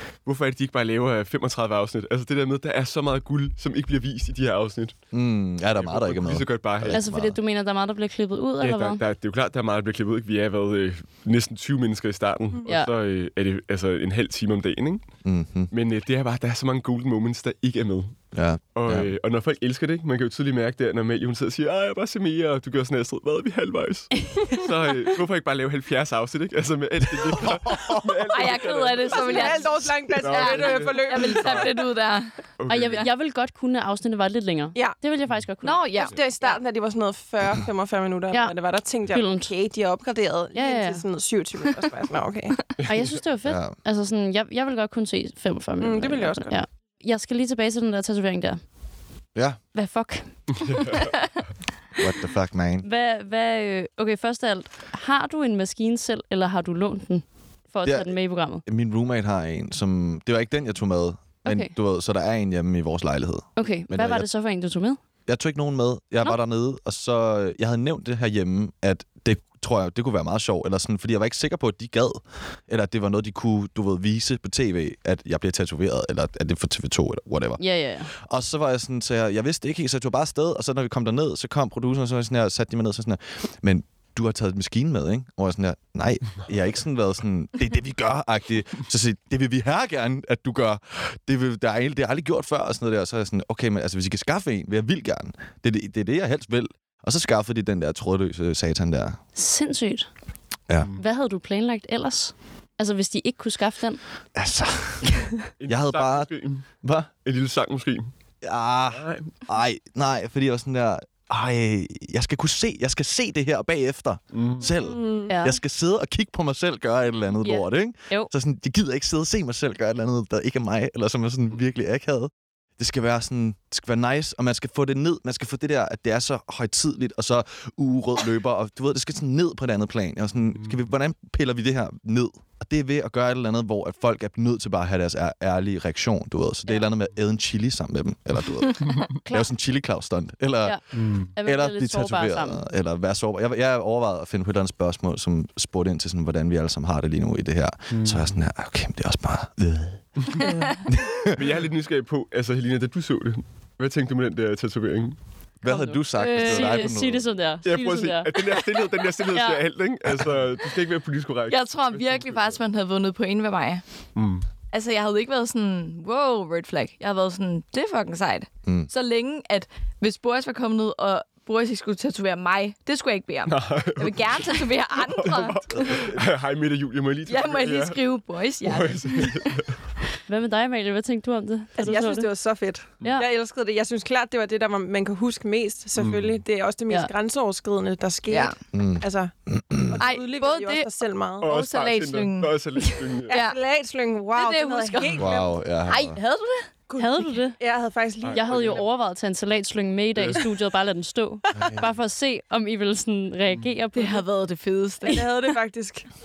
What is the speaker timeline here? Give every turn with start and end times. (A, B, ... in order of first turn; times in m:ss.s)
0:00.2-0:05.0 A
0:05.1-0:07.4 B
0:05.7-0:07.0 A
0:06.9-0:09.0 C
0:08.6-0:15.1 A
0:12.6-0:12.9 C
0:15.2-0:15.7 B
0:15.7-0:18.2 A
0:18.3-0:19.1 B
0:18.7-0:29.7 A
0:27.3-0:28.2 B
0:28.3-0:32.3 D
0:29.1-0:31.7 E
0:30.2-0:31.7 A
0:32.6-0:33.1 A
0:32.7-0:36.1 C
0:35.6-0:36.6 D
0:36.0-0:42.6 E
0:38.3-0:39.5 C
0:40.5-0:41.0 C
0:42.8-0:48.6 C
0:43.4-0:43.8 B
0:45.8-0:46.6 E
0:49.7-0:51.0 C
0:52.0-0:52.9 B
0:52.8-0:58.6 C
0:57.8-1:04.3 B
1:01.4-1:01.7 C
1:03.6-1:05.0 C
1:05.3-1:39.2 B
1:17.6-1:18.1 C
1:39.4-1:40.1 C
1:41.0-1:44.0 C
1:44.3-1:45.1 B
1:45.6-1:46.7 A
1:45.7-1:47.1 B
1:47.2-1:48.1 A
1:48.4-2:31.4 B
1:48.9-1:49.3 A
1:54.3-1:54.7 A
1:54.8-1:55.3 E
1:55.3-1:55.6 C
1:57.4-1:58.3 C
2:19.2-2:19.5 C
2:20.6-2:22.6 C
2:20.9-2:21.3 A
2:27.9-2:28.4 A
2:31.3-2:35.2 A
2:35.6-2:37.3 B
2:36.1-2:36.9 D
2:36.2-2:38.6 C
2:37.6-2:42.6 A
2:39.3-2:39.6 C
2:41.5-2:43.8 D
2:44.1-2:44.4 A
2:44.7-2:56.1 D
2:53.5-2:58.0 A
2:57.3-2:59.6 D
2:58.6-2:59.8 A
3:00.3-3:02.3 C
3:01.8-3:09.3 E
3:03.0-3:03.2 C
3:06.0-3:06.4 A
3:08.3-3:08.6 D
3:08.7-3:10.0 B
3:09.9-3:11.6 E
3:10.0-3:10.9 D
3:11.4-3:13.3 A
3:11.4-3:13.6 D
3:13.3-3:15.6 E
3:14.3-3:16.7 D
3:15.2-3:16.2 B
3:16.9-3:18.8 E
3:17.0-3:17.6 C
3:18.2-3:18.8 A
3:18.3-3:24.2 C
3:23.9-3:25.3 D
3:25.0-3:26.1 E